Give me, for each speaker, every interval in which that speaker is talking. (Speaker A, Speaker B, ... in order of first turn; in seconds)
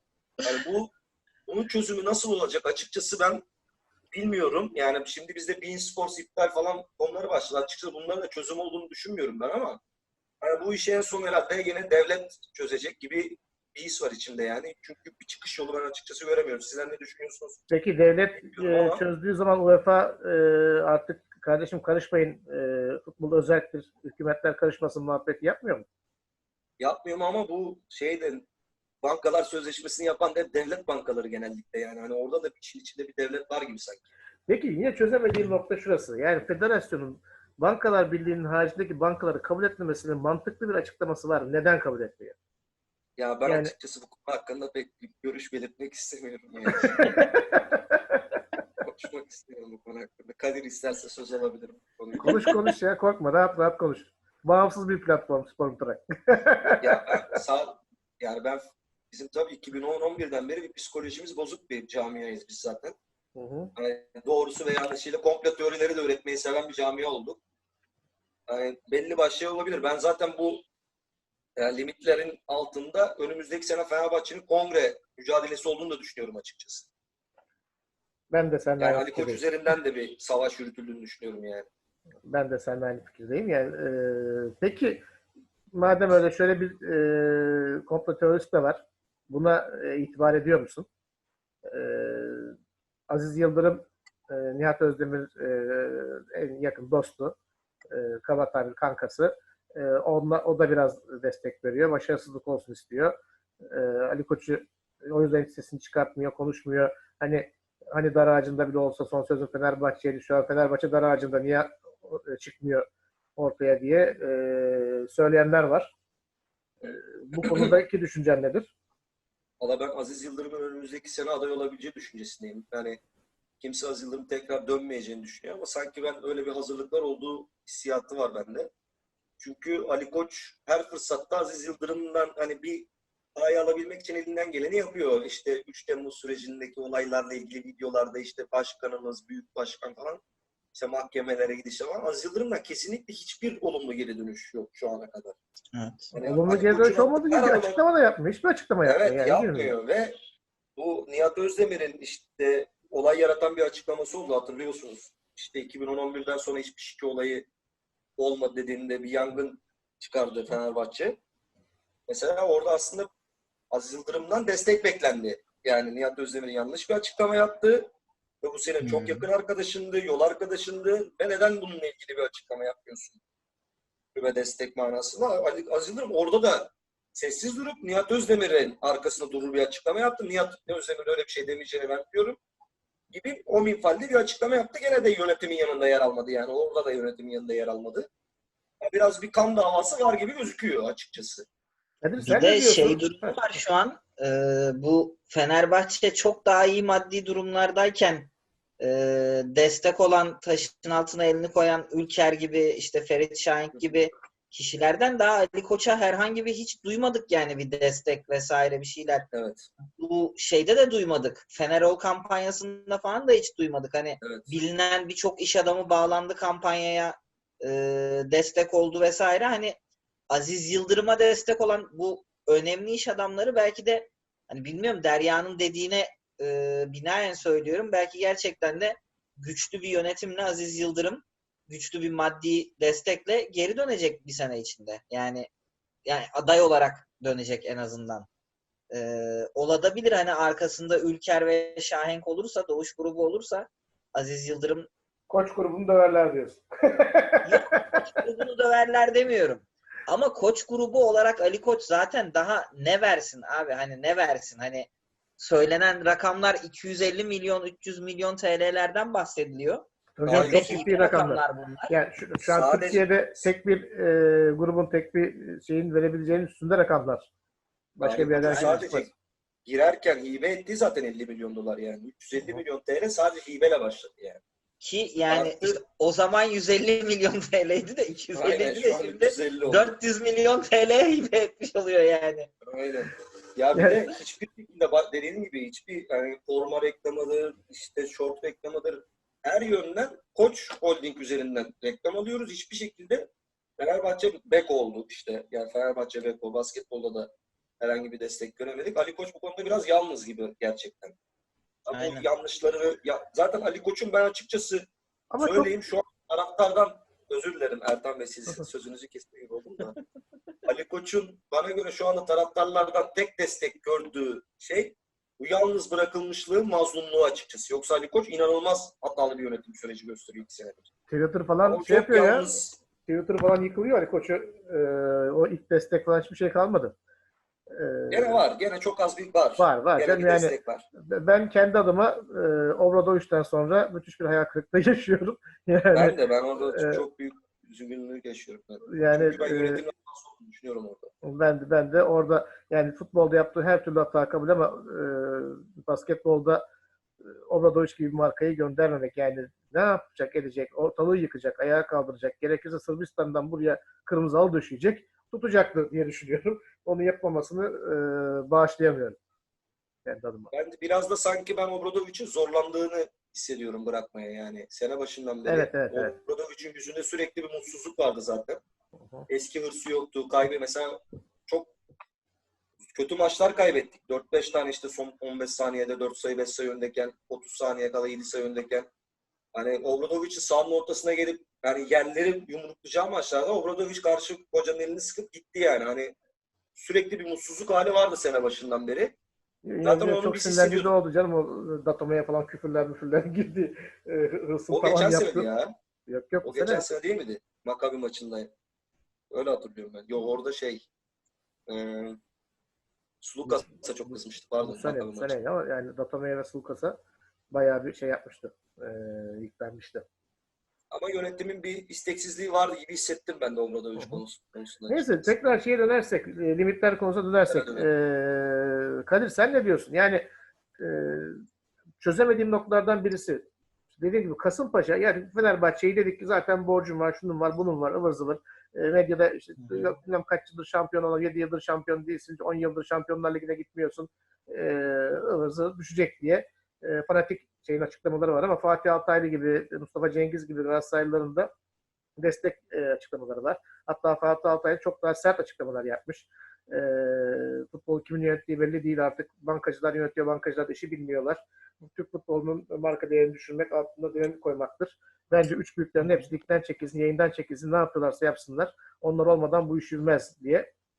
Speaker A: 0.4-0.9, 1.5-3.4, 4.1-9.8, 10.4-17.6, 18.4-19.0, 26.8-28.4, 29.0-34.1, 43.2-47.4, 48.8-52.4, 56.8-63.0, 63.8-67.4, 68.5-70.6, 71.6-76.9, 78.8-81.7, 117.4-117.7, 119.6-123.0, 123.6-128.7, 129.4-140.2, 140.7-145.3, 146.1-147.8, 148.8-150.2, 150.8-157.4, 158.2-161.2, 162.1-163.1, 163.7-167.9, 168.4-173.2, 174.2-182.4, 183.1-188.1, 188.8-191.4, 209.3-209.7, 214.2-214.6, 260.2-261.1, 262.4-263.5, 268.0-269.1, 269.6-274.4, 275.3-275.8, 278.4-279.9, 282.6-293.3, 293.8-301.1, 301.9-304.9, 305.4-310.0, 310.7-320.9, 321.6-322.8, 328.1-330.8, 335.9-341.1, 360.5-368.6, 369.3-371.7, 372.9-378.9, 379.5-386.1, 386.8-389.1, 389.8-390.9, 394.7-395.7, 396.4-398.5, 399.3-400.9, 401.7-402.2, 403.2-405.4, 410.9-415.5, 417.5-417.9
Speaker B: 17.7-25.9, 34.5-42.3, 43.5-43.7, 46.8-48.2, 52.2-57.4, 63.4-63.7, 78.3-79.7, 82.3-85.0, 85.7-90.9, 91.6-92.5, 93.1-97.3, 97.9-112.8, 113.4-115.9, 116.8-118.7, 146.2-149.7, 192.0-193.4, 245.3-248.0, 260.2-267.3, 268.0-269.1, 283.7-284.0, 305.3-305.7, 321.1-322.4, 323.1-326.9, 327.7-328.4, 329.6-337.0, 338.9-339.8, 341.2-346.6, 347.5-359.2, 360.1-360.5, 365.4-366.1, 369.0-369.3, 389.6-395.5, 396.1-396.9, 403.4-407.0, 407.5-410.1, 414.0-414.2, 414.9-420.2, 420.8-421.4, 422.0-441.5, 442.2-460.7
Speaker C: 52.2-52.7, 145.7-146.1, 168.8-169.3, 192.2-209.3, 209.9-219.8, 220.3-235.5, 236.1-238.3, 238.9-244.9, 247.4-261.9, 268.5-268.8, 274.8-282.5, 301.9-302.3